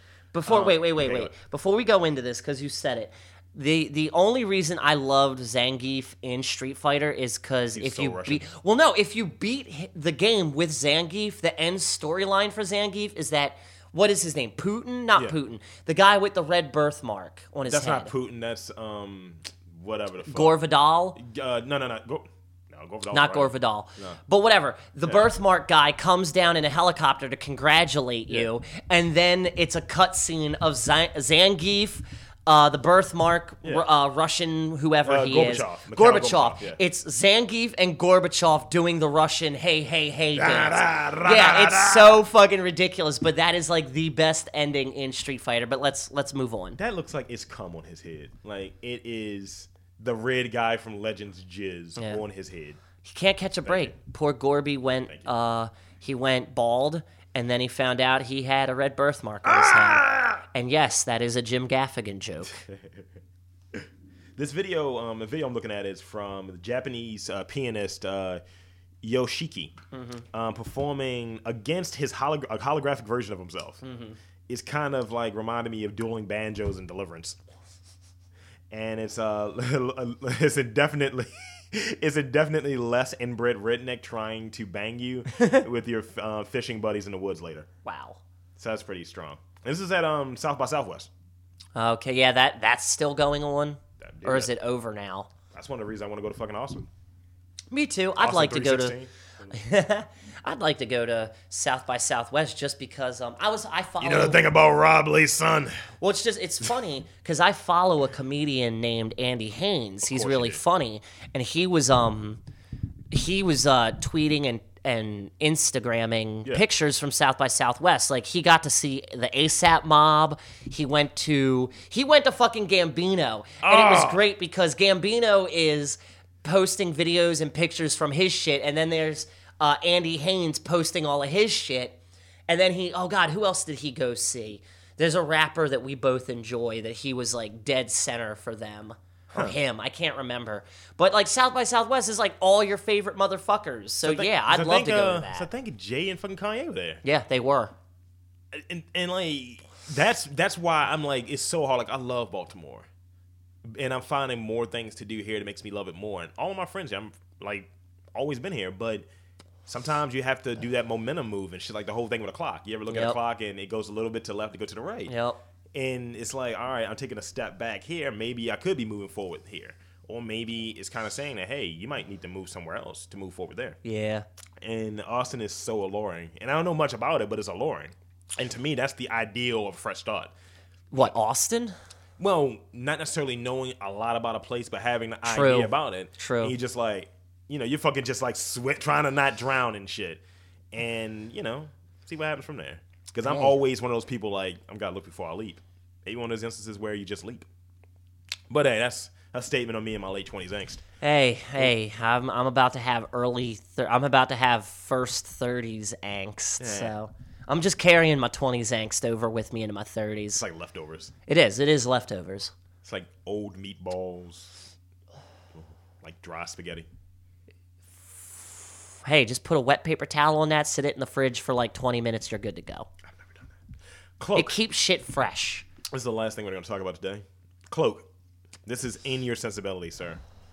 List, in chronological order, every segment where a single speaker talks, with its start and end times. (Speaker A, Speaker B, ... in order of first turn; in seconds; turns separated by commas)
Speaker A: 0.3-18.1, Speaker B: 0.4-1.3, Speaker B: 7.7-8.5, Speaker B: 17.7-20.6, Speaker A: 20.2-21.2, Speaker B: 21.1-24.2, Speaker A: 23.1-46.8, Speaker B: 33.6-33.9, Speaker B: 35.0-36.8, Speaker B: 40.3-42.2, Speaker B: 46.8-52.8, Speaker A: 52.0-52.2, Speaker A: 53.0-62.5, Speaker B: 53.6-53.9, Speaker B: 59.4-60.4, Speaker B: 62.5-63.0, Speaker B: 63.7-68.4, Speaker B: 69.0-69.8, Speaker A: 69.9-70.2, Speaker B: 70.3-73.8, Speaker A: 73.8-74.2, Speaker B: 74.5-77.4, Speaker B: 78.7-87.7, Speaker A: 85.3-85.6, Speaker A: 87.8-88.2, Speaker B: 88.5-91.1, Speaker A: 91.8-95.3, Speaker B: 94.0-94.5, Speaker B: 95.5-96.9, Speaker A: 97.7-99.0, Speaker B: 98.2-99.6, Speaker A: 99.5-104.4, Speaker B: 104.0-105.8, Speaker A: 106.0-112.4, Speaker B: 110.0-110.6, Speaker A: 113.1-145.5, Speaker B: 123.6-124.2, Speaker B: 144.0-147.0, Speaker A: 147.0-147.7, Speaker B: 148.5-152.9, Speaker B: 153.7-159.1, Speaker B: 159.7-165.1, Speaker A: 162.9-163.2, Speaker A: 165.1-165.4, Speaker B: 165.7-173.8, Speaker A: 173.8-174.2, Speaker B: 174.6-180.3, Speaker A: 180.9-181.7, Speaker B: 182.2-197.5, Speaker A: 185.2-186.5, Speaker A: 193.2-193.5, Speaker B: 198.5-200.8, Speaker A: 201.0-210.4, Speaker B: 206.6-206.9, Speaker B: 210.3-211.1, Speaker A: 211.3-212.5, Speaker B: 212.8-214.6, Speaker B: 215.5-216.9, Speaker A: 218.0-222.9, Speaker B: 223.1-223.5, Speaker B: 224.2-224.6, Speaker A: 224.3-225.7, Speaker B: 225.9-228.1, Speaker B: 228.7-230.2